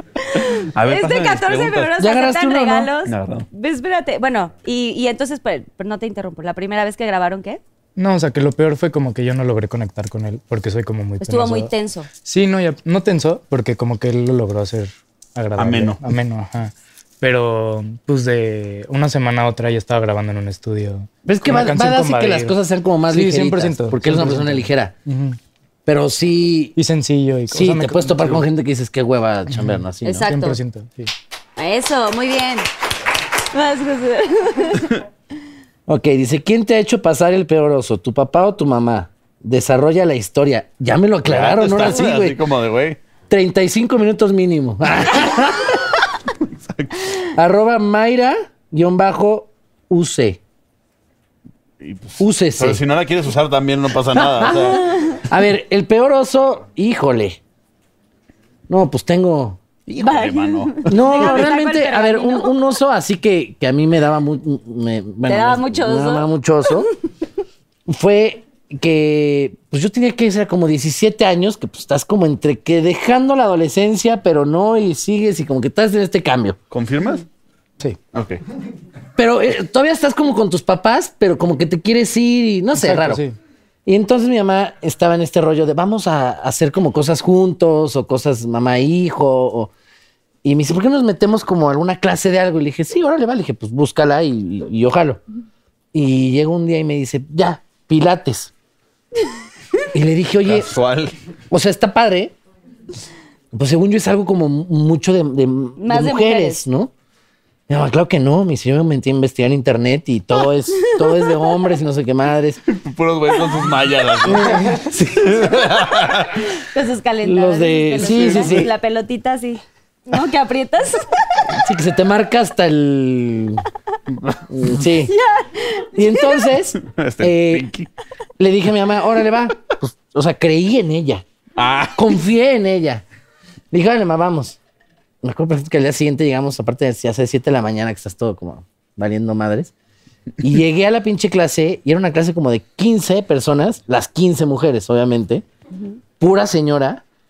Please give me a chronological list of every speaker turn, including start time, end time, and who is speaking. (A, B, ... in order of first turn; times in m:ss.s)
0:00.3-0:07.6 A
0:00.7-0:01.9 B
0:02.0-0:02.9 C
0:03.0-0:03.5 B
0:08.0-0:11.7 D
0:11.2-0:12.1 A
0:12.2-0:22.6 D
0:15.6-0:16.0 B
0:21.2-0:24.9 C
0:23.1-0:25.4 D
0:25.8-0:26.8 C
0:26.8-0:28.4 D
0:27.5-0:30.3 C
0:29.5-0:31.1 D
0:30.0-0:30.6 A
0:31.6-0:32.7 A
0:33.5-0:34.9 A
0:35.9-0:42.4 C
0:41.2-0:43.0 B
0:43.3-0:45.8 C
0:46.4-0:47.1 B
0:47.3-0:50.4 C
0:51.8-0:55.0 B
0:52.2-0:52.8 C
0:54.1-0:57.4 C
0:58.7-0:59.6 C
0:59.9-1:01.4 B
1:00.0-1:02.6 A
1:00.8-1:06.9 C
1:05.3-1:06.3 A
1:07.9-1:16.6 C
1:16.7-1:17.2 B
1:18.1-1:18.4 B
1:19.2-1:23.2 C
1:22.7-1:23.3 D
1:23.8-1:29.7 C
1:30.4-1:35.2 C
1:35.9-1:38.5 C
1:39.9-1:40.7 C
1:40.4-1:41.1 B
1:41.5-1:42.3 C
1:43.5-1:46.9 C
1:45.8-1:46.6 A
1:47.7-1:52.6 C
1:51.0-1:51.4 A
1:52.7-1:56.4 B
1:54.2-1:55.6 C
1:56.7-2:01.2 A
1:57.2-1:58.7 C
1:58.0-1:58.7 B
2:01.5-2:03.6 C
2:04.1-2:04.4 B
2:04.5-2:05.1 C
2:05.1-2:06.4 A
2:05.9-2:07.7 C
2:06.8-2:07.9 B
2:08.4-2:11.2 C
2:11.6-2:12.1 B
2:12.0-2:13.0 C
2:13.7-2:14.6 C
2:15.2-2:19.7 C
2:20.4-2:25.4 C
2:26.2-2:27.0 C